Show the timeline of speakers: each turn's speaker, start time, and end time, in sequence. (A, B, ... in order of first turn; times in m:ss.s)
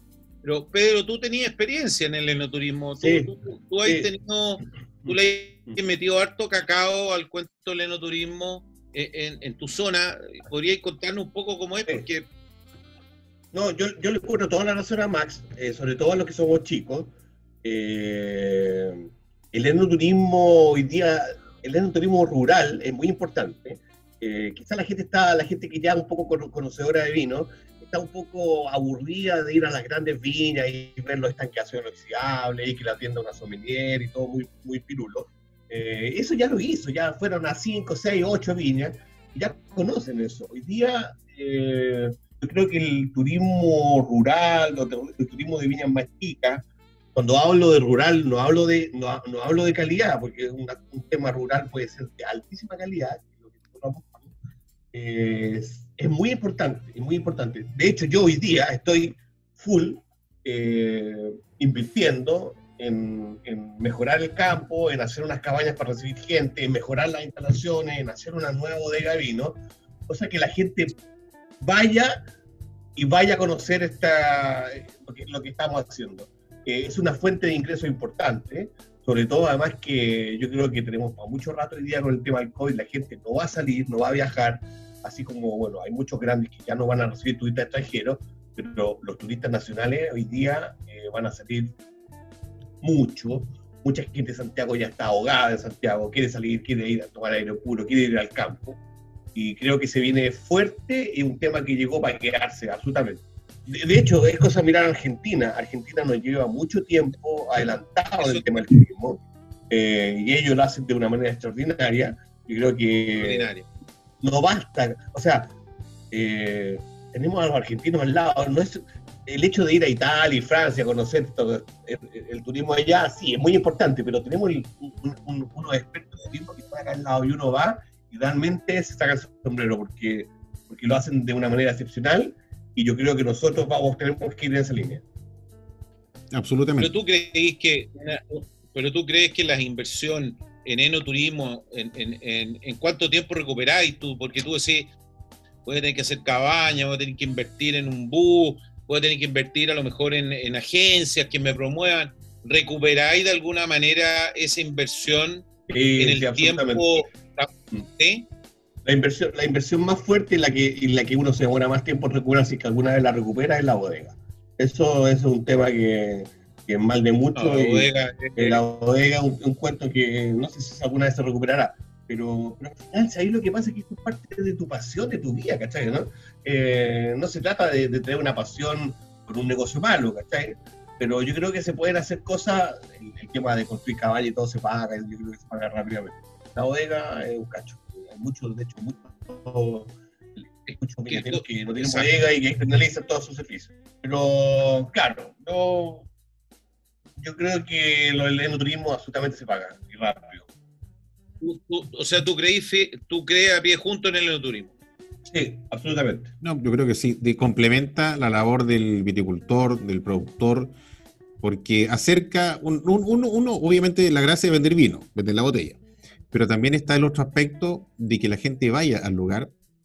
0:00.4-0:12.3 A
0:03.0-0:03.3 B
0:13.5-0:54.3 B
0:54.9-1:11.0 B
1:11.6-1:12.2 B
1:13.0-1:31.7 B
1:32.8-1:38.8 B
1:39.4-1:53.5 B
1:48.2-1:48.5 A
1:53.2-1:53.7 A
1:54.2-1:55.5 B
1:56.1-2:15.0 B
2:16.3-2:16.9 C
2:16.8-2:24.9 A
2:25.6-2:38.3 A
2:35.7-2:37.0 B
2:38.8-3:10.0 B
2:47.4-2:48.6 A
3:10.7-3:12.1 A
3:10.8-3:16.1 B
3:17.2-3:20.5 B
3:21.4-3:24.7 A
3:25.3-3:26.3 B
3:26.4-3:30.8 C
3:31.4-3:35.8 C
3:36.3-3:39.5 C